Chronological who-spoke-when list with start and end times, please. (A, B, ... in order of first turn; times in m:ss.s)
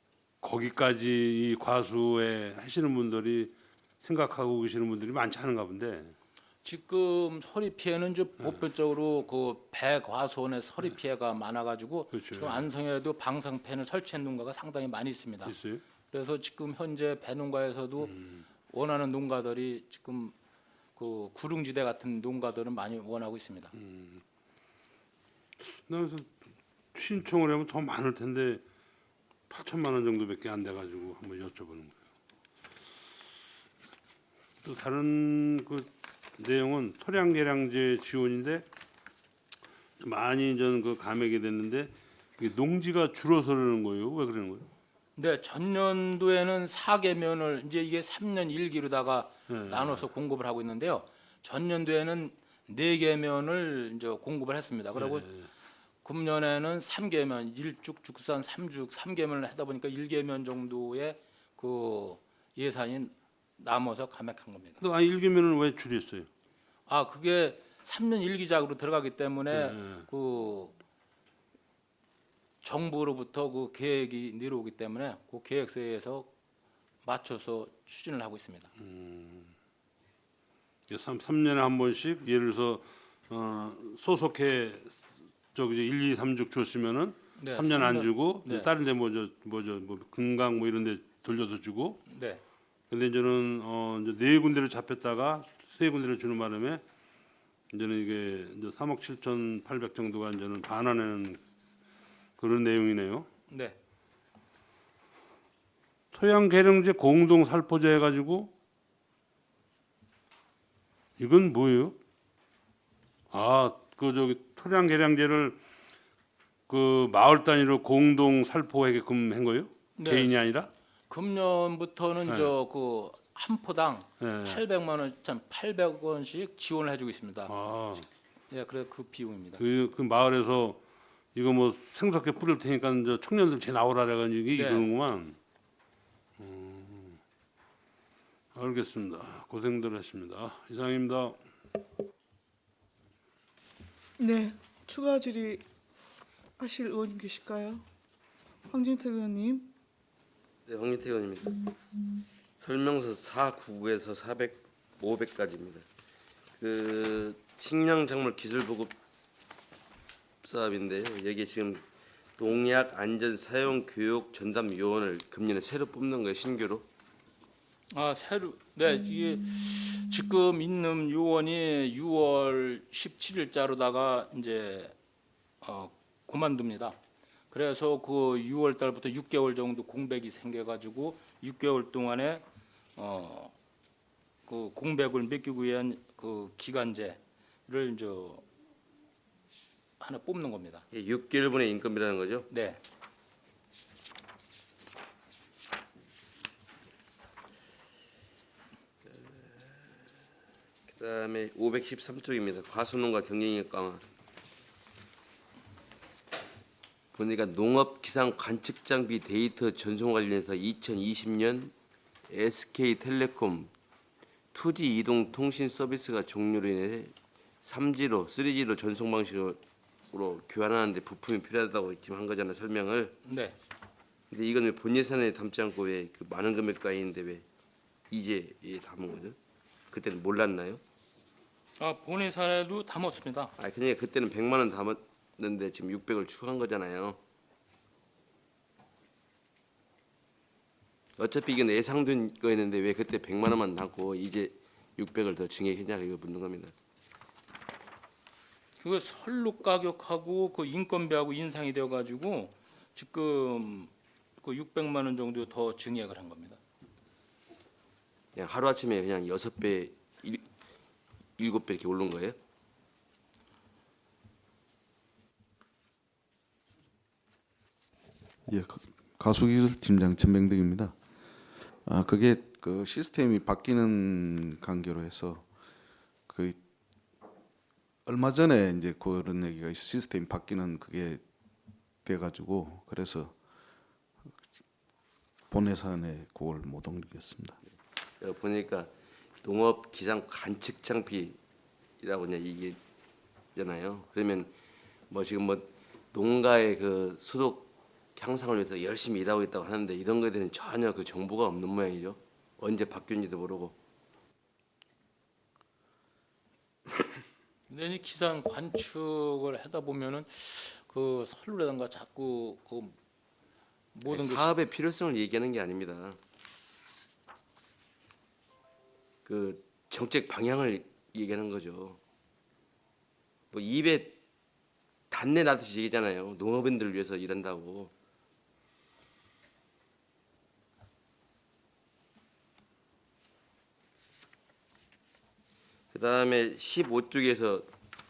0:00.4-0:06.1 A
0:06.6-0:15.5 B
0:12.1-0:12.6 A
0:15.4-0:15.8 A
0:16.1-0:18.1 B
0:18.1-0:18.4 A
0:18.7-0:20.4 B
0:21.0-0:23.7 B
0:23.8-0:24.2 A
0:25.6-0:26.3 A
0:26.9-0:28.6 A
0:29.5-0:31.9 A
0:34.6-0:38.6 A
0:40.0-0:44.7 A
0:45.2-0:55.3 B
0:49.5-0:50.0 A
0:55.0-0:55.4 A
0:56.0-1:04.8 B
1:04.8-1:06.3 A
1:06.9-1:10.8 B
1:09.5-1:10.0 A
1:12.6-1:16.3 B
1:17.0-1:18.7 B
1:18.8-1:19.5 A
1:20.9-1:25.0 A
1:25.5-1:32.0 A
1:27.4-1:28.7 B
1:32.1-1:32.4 B
1:32.9-1:36.8 A
1:37.7-1:41.4 A
1:42.4-1:43.3 A
1:43.5-1:43.8 B
1:46.1-1:48.5 A
1:51.2-1:52.0 A
1:53.3-1:55.6 A
1:56.7-2:00.7 A
2:00.0-2:00.4 B
2:01.1-2:07.5 B
2:02.2-2:02.5 A
2:04.2-2:04.6 A
2:07.5-2:08.0 A
2:08.5-2:09.6 B
2:09.6-2:10.8 A
2:11.3-2:15.4 A
2:14.5-2:14.9 B
2:16.4-2:17.2 A
2:18.5-2:21.4 A
2:24.2-2:25.6 C
2:26.6-2:27.8 C
2:28.7-2:29.7 C
2:30.6-2:31.7 D
2:32.6-2:35.8 D
2:36.5-2:38.9 D
2:40.4-2:41.8 D
2:42.4-2:46.8 D
2:47.9-2:54.9 B
2:55.6-2:57.0 B
2:57.5-3:02.4 B
3:03.0-3:03.5 B
3:04.4-3:08.4 B
3:10.0-3:10.8 B
3:10.9-3:12.5 D
3:12.5-3:12.8 B
3:19.3-3:19.7 D
3:20.9-3:24.0 D
3:27.1-3:31.7 D
3:32.3-3:33.7 D
3:34.5-3:43.2 D
3:43.2-3:43.6 B
3:44.3-3:47.4 D
3:48.1-3:49.4 D
3:49.9-3:50.8 D
3:51.8-3:53.5 B
3:53.6-3:57.2 D
4:01.2-4:06.7 D
4:08.8-4:16.6 B
4:18.3-4:20.4 D
4:21.4-4:22.4 D
4:28.5-4:30.9 E
4:31.8-4:35.4 E
4:36.3-4:36.6 E
4:38.0-4:41.2 E
4:42.0-4:43.3 E
4:45.5-4:47.6 E
4:48.2-4:48.9 D
4:49.4-4:51.4 D
4:52.0-4:52.8 D
4:53.5-4:54.5 D
4:55.1-5:03.8 D
5:07.7-5:13.0 B
5:13.9-5:14.5 B
5:14.1-5:16.2 D
5:19.2-5:22.0 D
5:23.5-5:24.2 D
5:25.1-5:27.9 D
5:35.9-5:37.7 D